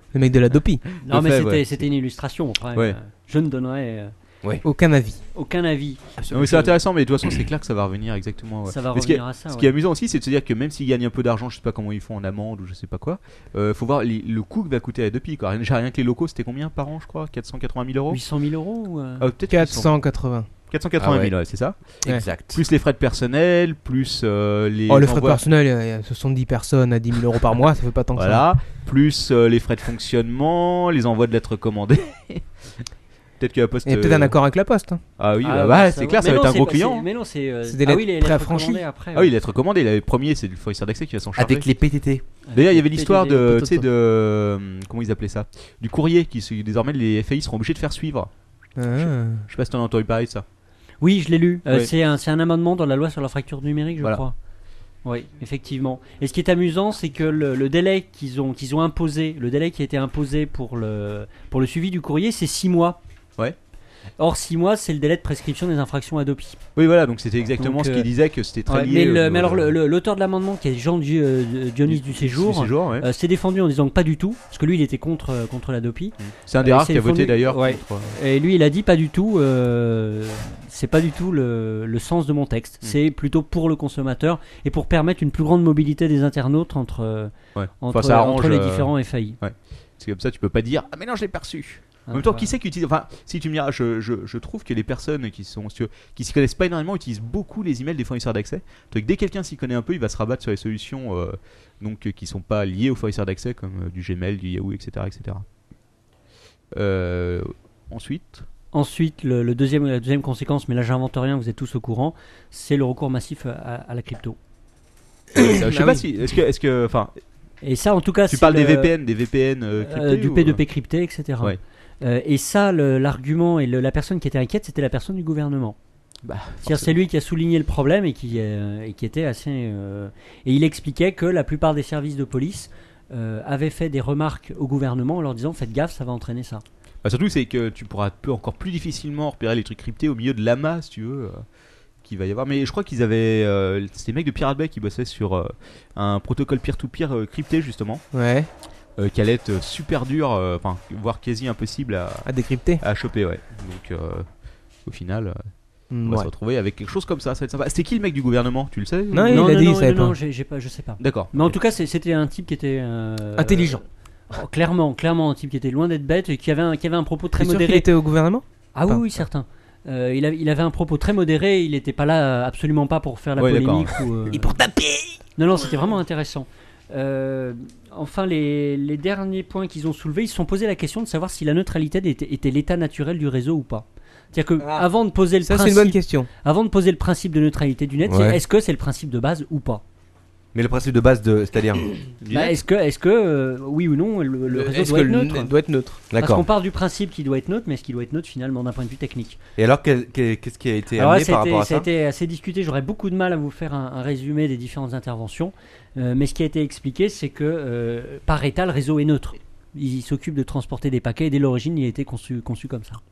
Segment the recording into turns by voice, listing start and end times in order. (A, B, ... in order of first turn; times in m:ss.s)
0:00.1-0:00.8 A
0:00.9-0:01.8 B
0:01.0-0:04.1 C
0:04.6-0:05.2 A
0:05.3-0:06.6 C
0:06.3-0:18.2 B
0:08.7-0:09.7 C
0:18.1-0:19.3 C
0:19.2-0:19.9 B
0:19.5-0:20.5 A
0:20.7-0:21.8 B
0:21.0-0:21.3 D
0:22.0-0:22.6 D
0:22.3-0:25.4 B
0:24.9-0:28.4 A
0:28.2-0:32.4 B
0:33.4-0:34.3 B
0:33.8-0:35.0 A
0:35.2-0:37.0 B
0:35.4-0:39.3 C
0:37.6-0:38.8 A
0:39.1-0:41.7 B
0:41.4-0:42.2 D
0:42.5-0:43.8 C
0:42.5-0:48.3 B
0:48.8-0:49.4 A
0:49.0-0:50.4 B
0:51.0-0:54.3 C
0:55.0-1:03.0 C
1:04.2-1:06.6 C
1:06.8-1:09.8 B
1:07.6-1:08.1 C
1:08.7-1:29.4 C
1:11.9-1:13.1 B
1:16.2-1:18.1 B
1:27.5-1:45.4 B
1:32.1-1:32.5 C
1:46.7-1:48.4 B
1:48.7-1:54.4 C
1:55.3-1:56.0 A
1:55.3-1:57.1 B
1:57.6-1:58.9 C
1:58.3-2:00.6 B
1:59.8-2:05.8 C
2:06.2-2:06.9 B
2:06.6-2:16.6 C
2:17.0-2:21.4 B
2:22.0-2:28.0 B
2:28.1-2:28.5 A
2:29.0-2:32.3 B
2:32.2-2:32.8 A
2:32.8-2:34.3 B
2:34.8-2:35.4 B
2:35.9-2:36.3 A
2:36.0-2:39.5 B
2:39.1-2:40.2 A
2:39.3-2:47.9 C
2:41.0-2:41.6 B
2:43.4-2:43.8 A
2:47.4-2:49.2 A
2:48.7-2:54.6 C
2:53.4-2:54.0 B
2:54.7-2:55.0 A
2:55.4-3:09.8 C
3:04.6-3:04.9 A
3:05.4-3:06.3 A
3:08.0-3:08.4 D
3:10.5-3:11.9 D
3:12.2-3:12.5 B
3:12.3-3:15.5 C
3:14.5-3:16.0 A
3:16.1-3:16.4 D
3:16.2-3:19.4 C
3:19.6-3:21.9 D
3:21.0-3:33.0 C